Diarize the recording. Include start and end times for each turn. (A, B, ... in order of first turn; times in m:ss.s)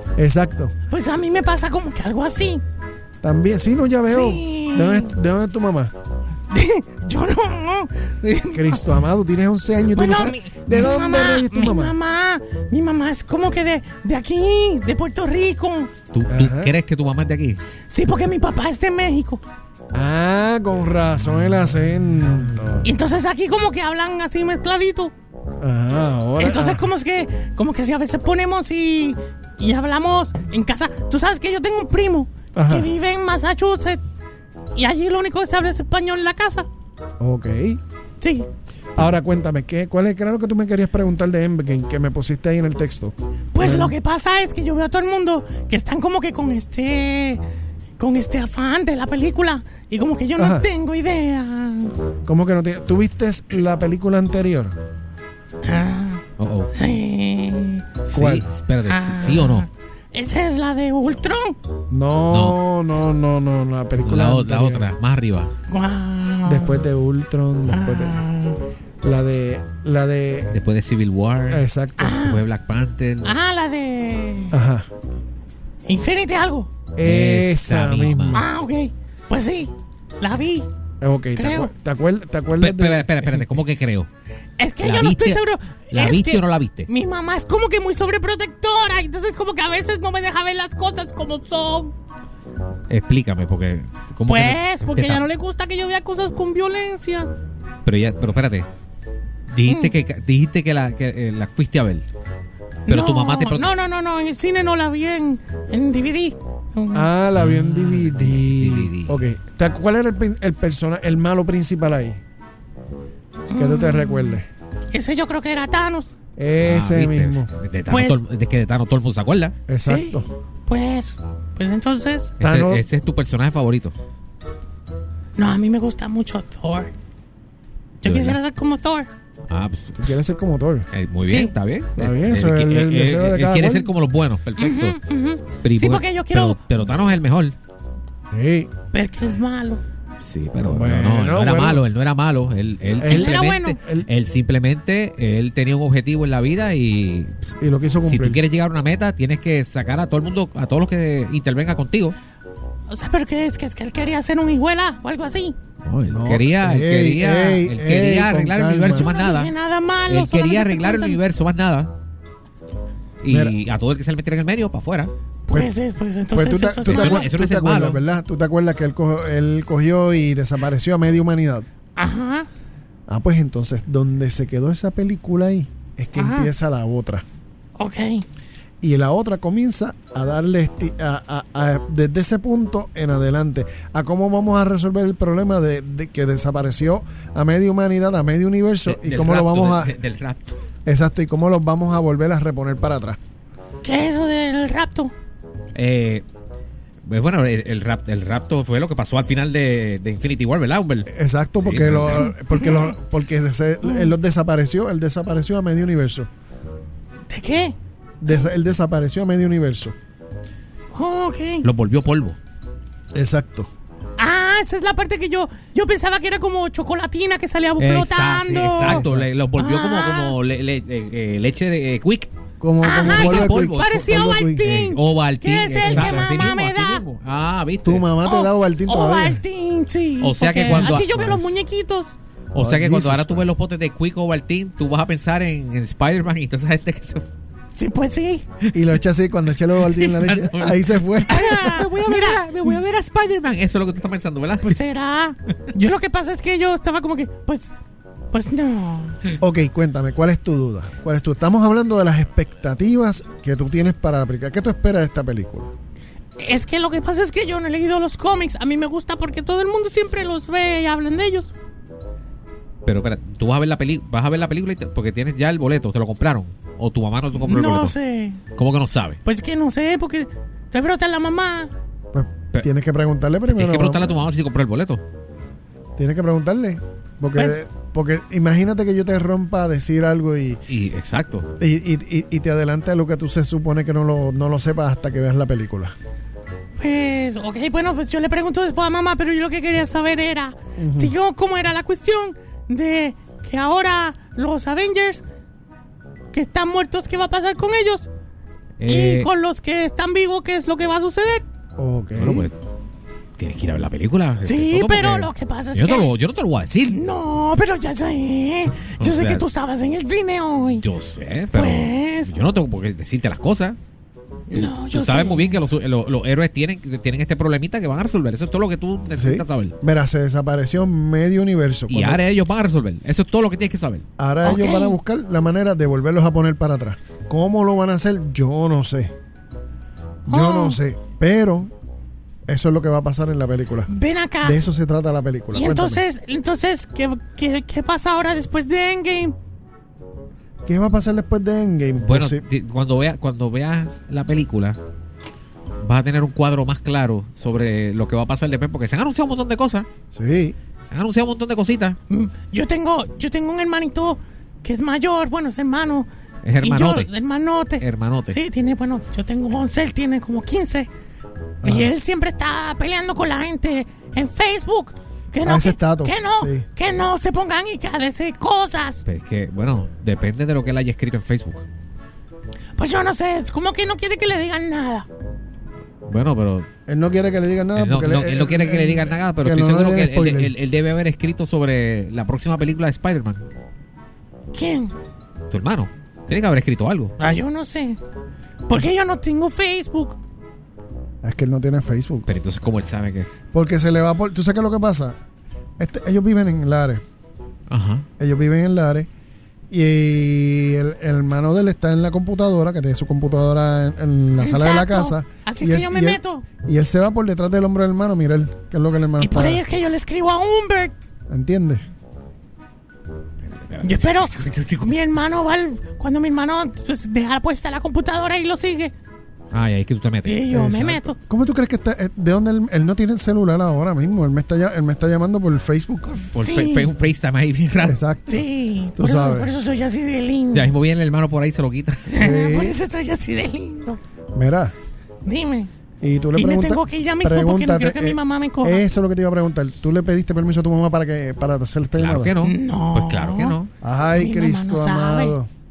0:00.2-0:00.7 A
0:00.9-0:02.6 B
0:03.2-0:05.9 A
0:04.1-0:05.1 B
0:06.5-0:08.8 B
0:08.5-0:12.0 A
0:09.9-0:15.9 B
0:16.1-0:17.6 C
0:16.3-0:16.7 A
0:17.9-0:19.4 B
0:19.9-0:22.9 A
0:22.8-0:25.1 B
0:25.6-0:26.9 A
0:26.4-0:34.0 B
0:32.6-0:32.9 A
0:34.8-0:36.7 B
0:37.2-0:37.8 A
0:38.2-0:38.5 B
0:39.0-0:44.0 A
0:43.5-0:47.4 B
0:48.0-0:51.9 B
0:50.4-0:50.7 A
0:52.2-0:54.8 A
0:55.6-0:57.9 B
0:56.4-0:56.7 C
0:58.1-0:59.7 C
0:58.1-0:58.4 A
0:58.8-1:01.6 B
1:01.9-1:04.9 A
1:02.3-1:02.6 C
1:04.0-1:05.5 C
1:05.7-1:06.8 B
1:06.4-1:08.2 A
1:07.7-1:08.6 B
1:09.0-1:10.6 A
1:10.5-1:13.3 C
1:11.5-1:12.2 A
1:12.0-1:12.4 B
1:13.2-1:14.6 B
1:14.5-1:14.9 A
1:15.8-1:16.7 B
1:17.0-1:18.5 A
1:17.0-1:18.4 C
1:18.3-1:20.7 B
1:21.0-1:23.5 A
1:21.4-1:21.7 B
1:22.6-1:24.1 C
1:24.6-1:31.9 B
1:24.8-1:26.9 C
1:32.9-1:35.2 C
1:34.3-1:37.3 B
1:37.8-1:38.7 C
1:39.5-1:42.0 C
1:39.7-1:40.0 B
1:42.9-1:47.1 B
1:42.9-1:43.7 C
1:46.9-1:52.2 A
1:47.4-1:49.2 C
1:53.5-1:56.1 B
1:53.6-1:54.5 A
1:56.4-1:57.5 A
1:56.6-1:59.6 C
1:57.9-1:58.2 B
1:59.7-2:00.3 A
1:59.7-2:02.3 B
2:02.4-2:02.8 A
2:02.4-2:04.0 C
2:05.4-2:06.9 B
2:08.0-2:08.4 C
2:08.0-2:09.1 B
2:09.5-2:10.2 C
2:10.0-2:10.9 A
2:10.9-2:15.0 C
2:11.3-2:11.5 B
2:12.0-2:13.9 A
2:14.6-2:16.6 B
2:15.6-2:17.6 C
2:18.3-2:18.7 A
2:18.9-2:19.8 B
2:20.2-2:32.2 C
2:20.6-2:21.8 A
2:23.0-2:24.1 A
2:23.0-2:23.8 B
2:27.6-2:28.4 A
2:32.9-2:35.6 B
2:35.8-2:39.5 C
2:36.1-2:39.1 A
2:38.9-2:41.2 B
2:40.1-2:41.9 C
2:43.2-2:45.1 C
2:43.3-2:43.6 A
2:45.5-2:47.3 B
2:46.3-2:51.7 A
2:46.9-2:48.0 C
2:52.0-2:52.5 B
2:53.1-2:57.2 A
2:56.2-2:56.5 B
2:57.8-2:58.2 B
2:58.8-3:10.0 A
3:08.8-3:10.4 C
3:10.9-3:13.2 A
3:13.8-3:15.1 B
3:15.7-3:16.2 C
3:17.0-3:22.3 C
3:21.1-3:26.3 A
3:22.1-3:22.9 B
3:23.8-3:24.1 B
3:27.3-3:27.8 B
3:28.2-3:30.0 A
3:30.9-3:31.7 B
3:31.6-3:32.4 C
3:33.1-3:33.7 A
3:34.2-3:39.0 B
3:37.8-3:42.3 C
3:38.8-3:39.3 A
3:39.6-3:40.4 B
3:42.6-3:44.6 A
3:42.8-3:47.0 B
3:42.8-3:48.1 C
3:45.8-3:46.4 A
3:47.8-3:49.4 A
3:48.2-3:52.1 B
3:50.2-3:51.5 C
3:50.6-3:51.5 A
3:52.5-3:57.3 C
3:52.6-3:53.5 A
3:57.7-3:58.4 B
3:58.7-4:01.5 A
4:00.0-4:04.8 C
4:01.3-4:02.8 B
4:04.6-4:07.7 B
4:08.3-4:09.2 B
4:09.4-4:15.7 A
4:16.4-4:21.5 B
4:22.8-4:28.0 C
4:27.3-4:28.4 B
4:28.6-4:29.2 C
4:29.2-4:31.7 B
4:32.1-4:34.2 A
4:33.5-4:35.0 C
4:36.0-4:40.6 A
4:37.4-4:37.6 B
4:40.7-4:41.5 C
4:41.6-4:46.0 A
4:46.8-4:55.2 B
4:50.8-4:51.2 A
4:56.3-4:58.1 B
4:58.8-4:59.3 C
4:58.9-5:01.4 B
5:01.8-5:02.5 A
5:02.2-5:02.6 C
5:03.4-5:07.0 C
5:04.4-5:06.1 B
5:06.9-5:10.9 B
5:09.0-5:09.5 C
5:10.8-5:13.8 C
5:11.5-5:12.4 B
5:14.5-5:15.6 B
5:14.5-5:19.8 C
5:19.1-5:22.2 A
5:21.9-5:24.1 C
5:24.2-5:29.1 A
5:24.4-5:25.0 B
5:30.3-5:31.7 A
5:30.3-5:30.8 B
5:32.5-5:33.9 A
5:33.9-5:34.6 B
5:34.4-5:36.0 A
5:35.5-5:39.4 B
5:40.6-5:42.4 A
5:42.0-5:44.8 C
5:45.8-5:49.9 C
5:50.1-5:50.6 A
5:50.9-5:52.0 C
5:52.1-5:56.1 B
5:56.4-5:57.1 C
5:56.6-6:00.9 B
5:57.8-5:58.4 C
6:01.6-6:01.9 A
6:01.6-6:09.0 B
6:05.4-6:06.7 A
6:09.0-6:11.6 C
6:12.8-6:15.1 B
6:16.1-6:16.7 C
6:16.9-6:20.5 A
6:17.7-6:23.5 C
6:24.5-6:24.9 B
6:25.5-6:27.2 C
6:27.2-6:28.0 B
6:28.7-6:30.2 B
6:31.2-6:32.3 A
6:32.3-6:33.3 C
6:33.5-6:35.2 A
6:35.8-6:37.0 A
6:37.7-6:38.1 C
6:38.2-6:39.1 A
6:39.7-6:49.6 A
6:44.4-6:46.4 B
6:49.2-6:51.0 B
6:51.3-6:51.8 A
6:53.4-6:54.4 C
6:53.8-6:58.9 B
6:59.5-7:00.4 C
7:00.2-7:01.2 B
7:00.5-7:06.4 A
7:06.3-7:08.0 C
7:06.4-7:06.9 B
7:07.8-7:09.5 A
7:08.3-7:10.7 B
7:10.5-7:12.2 C
7:12.1-7:14.0 B
7:12.2-7:12.8 A
7:14.4-7:14.7 A
7:15.2-7:15.7 B
7:16.0-7:22.4 A
7:16.3-7:18.8 B
7:22.0-7:23.7 C
7:22.4-7:23.6 B
7:23.8-7:25.5 A
7:24.1-7:25.4 B